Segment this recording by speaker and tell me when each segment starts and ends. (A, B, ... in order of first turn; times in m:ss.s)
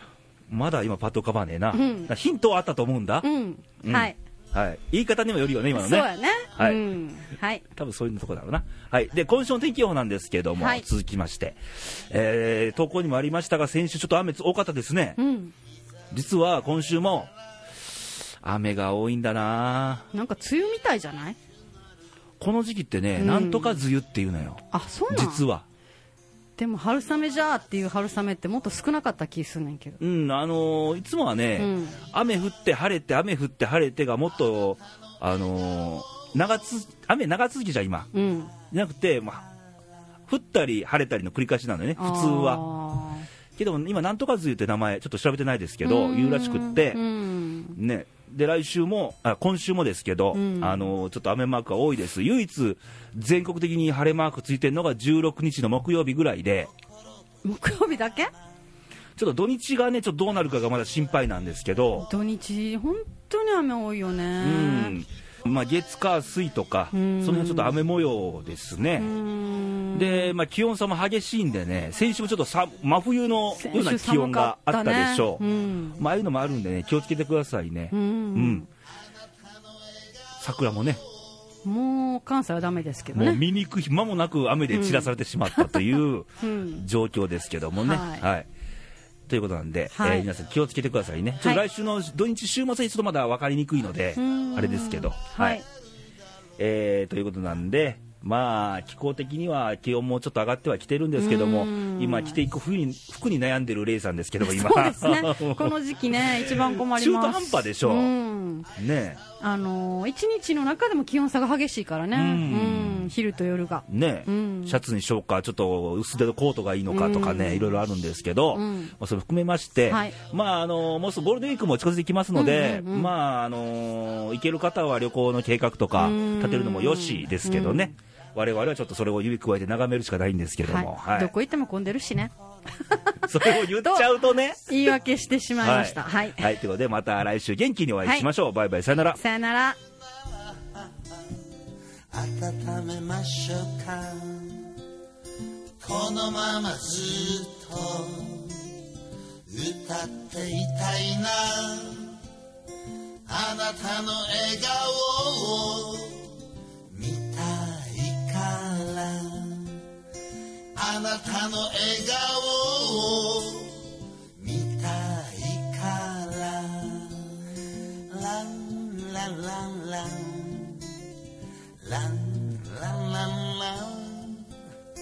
0:00.5-0:03.3 A
0:01.7-0:02.1 B
0:03.2-0:04.2 B
0:03.8-0:06.8 A
0:05.7-0:07.6 B
0:07.7-0:15.2 A
0:10.6-0:10.8 B
0:15.2-0:15.5 B
0:16.1-0:17.3 A
0:18.4-0:20.0 A
0:20.1-0:21.4 B
0:22.4-0:25.6 A
0:23.2-0:23.8 B
0:24.7-0:25.4 B
0:26.6-0:30.0 B
0:30.0-0:38.1 A
0:31.6-0:32.0 B
0:38.1-0:38.5 B
0:38.7-0:39.5 A
0:40.3-0:42.6 A
0:42.0-0:43.2 B
0:43.6-0:47.0 A
0:45.8-0:47.8 B
0:47.8-0:56.7 A
0:50.3-0:50.9 B
0:57.4-0:58.3 B
0:59.2-1:02.1 A
1:02.0-1:05.0 B
1:04.4-1:09.1 A
1:06.9-1:07.8 B
1:09.0-1:10.3 B
1:09.9-1:15.4 A
1:13.5-1:16.0 B
1:16.0-1:18.6 A
1:17.9-1:18.7 B
1:20.4-1:21.0 A
1:21.6-1:23.4 B
1:23.1-1:28.5 A
1:24.7-1:26.8 B
1:27.8-1:28.2 B
1:29.3-1:35.6 A
1:29.9-1:30.3 B
1:34.2-1:35.6 B
1:36.6-1:48.1 A
1:41.2-1:42.4 B
1:44.4-1:48.7 B
1:48.7-1:49.2 A
1:49.4-1:54.8 B
1:52.1-1:53.1 A
1:53.9-2:11.3 A
1:56.9-1:57.8 B
1:58.5-1:58.9 B
1:59.9-2:00.2 B
2:02.3-2:03.1 B
2:06.0-2:07.9 B
2:10.6-2:14.1 B
2:13.2-2:14.7 A
2:14.7-2:16.5 B
2:15.6-2:19.2 A
2:19.1-2:19.8 B
2:22.1-2:24.7 C
2:25.8-2:28.7 C
2:29.5-2:32.2 C
2:33.3-2:36.3 C
2:36.9-2:39.8 C
2:40.8-2:43.8 C
2:44.4-2:50.9 C
2:51.8-2:54.5 C